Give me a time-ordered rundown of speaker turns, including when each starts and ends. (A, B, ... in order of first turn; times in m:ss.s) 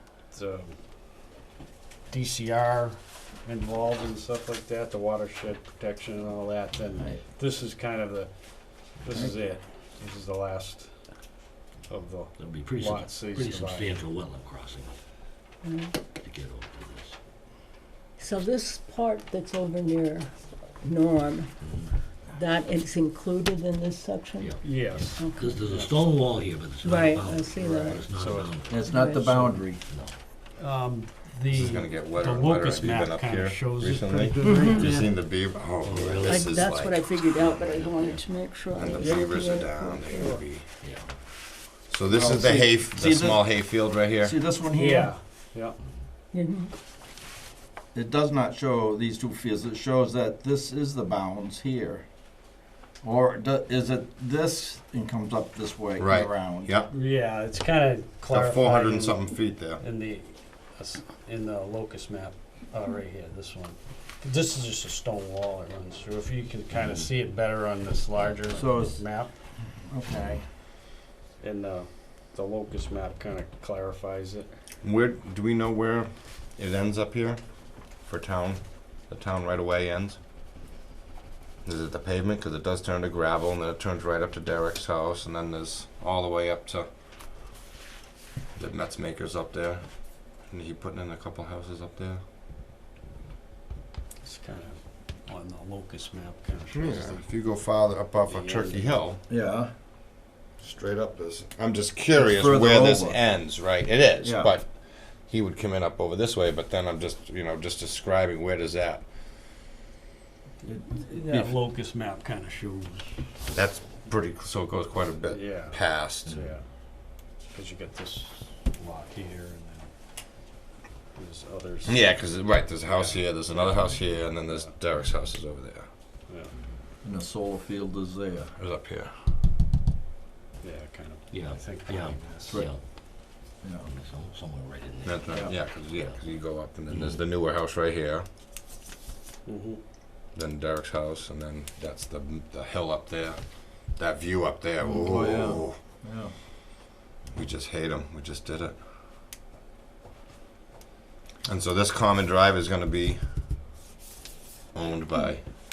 0:00.3-0:00.8 A
0:02.1-0:08.3 A
0:07.0-0:07.2 B
0:09.0-0:10.9 A
0:11.9-0:13.9 A
0:12.4-0:14.9 C
0:15.6-0:16.0 D
0:16.2-0:17.2 C
0:18.2-0:21.5 D
0:21.6-0:21.9 C
0:22.3-0:24.5 D
0:24.4-0:28.8 C
0:24.6-0:25.9 A
0:25.1-0:25.6 D
0:26.8-0:28.0 D
0:27.6-0:28.5 A
0:28.7-0:29.8 B
0:28.8-0:29.6 D
0:29.9-0:30.1 C
0:30.6-0:35.0 A
0:31.5-0:37.7 E
0:34.4-0:35.0 D
0:35.8-0:36.6 C
0:36.2-0:40.4 D
0:37.6-0:38.2 C
0:38.7-0:40.7 E
0:40.8-0:41.1 C
0:41.9-0:44.3 E
0:42.1-0:45.1 B
0:44.7-0:45.8 A
0:46.3-0:46.7 D
0:47.9-0:52.1 B
0:53.0-0:56.8 B
0:56.0-0:56.9 E
0:56.9-1:09.3 A
0:58.3-0:59.8 E
1:06.7-1:07.0 C
1:08.1-1:08.6 C
1:08.5-1:09.0 B
1:09.8-1:10.4 B
1:11.4-1:14.5 A
1:14.8-1:20.2 E
1:21.6-1:26.9 E
1:28.6-1:32.2 E
1:34.2-1:37.3 A
1:36.7-1:39.2 E
1:38.2-1:39.0 A
1:39.3-1:39.7 B
1:40.6-1:49.0 E
1:42.1-1:43.2 B
1:44.2-1:44.5 B
1:50.6-1:51.5 B
1:51.0-1:53.2 A
1:53.5-1:56.4 E
1:55.3-1:56.7 A
1:56.3-1:56.5 C
1:57.4-1:59.9 A
2:01.1-2:02.2 A
2:01.8-2:05.9 E
2:02.8-2:04.7 A
2:06.3-2:06.5 A
2:07.0-2:08.5 B
2:08.6-2:09.1 E
2:10.6-2:12.6 A
2:11.3-2:12.8 C
2:12.5-2:12.7 B
2:13.6-2:13.9 B
2:13.8-2:16.3 C
2:15.0-2:18.3 E
2:16.9-2:17.2 C
2:19.4-2:19.8 A
2:20.3-2:25.8 E
2:24.8-2:26.3 B
2:27.3-2:28.8 E
2:31.4-2:33.2 E
2:34.7-2:35.4 E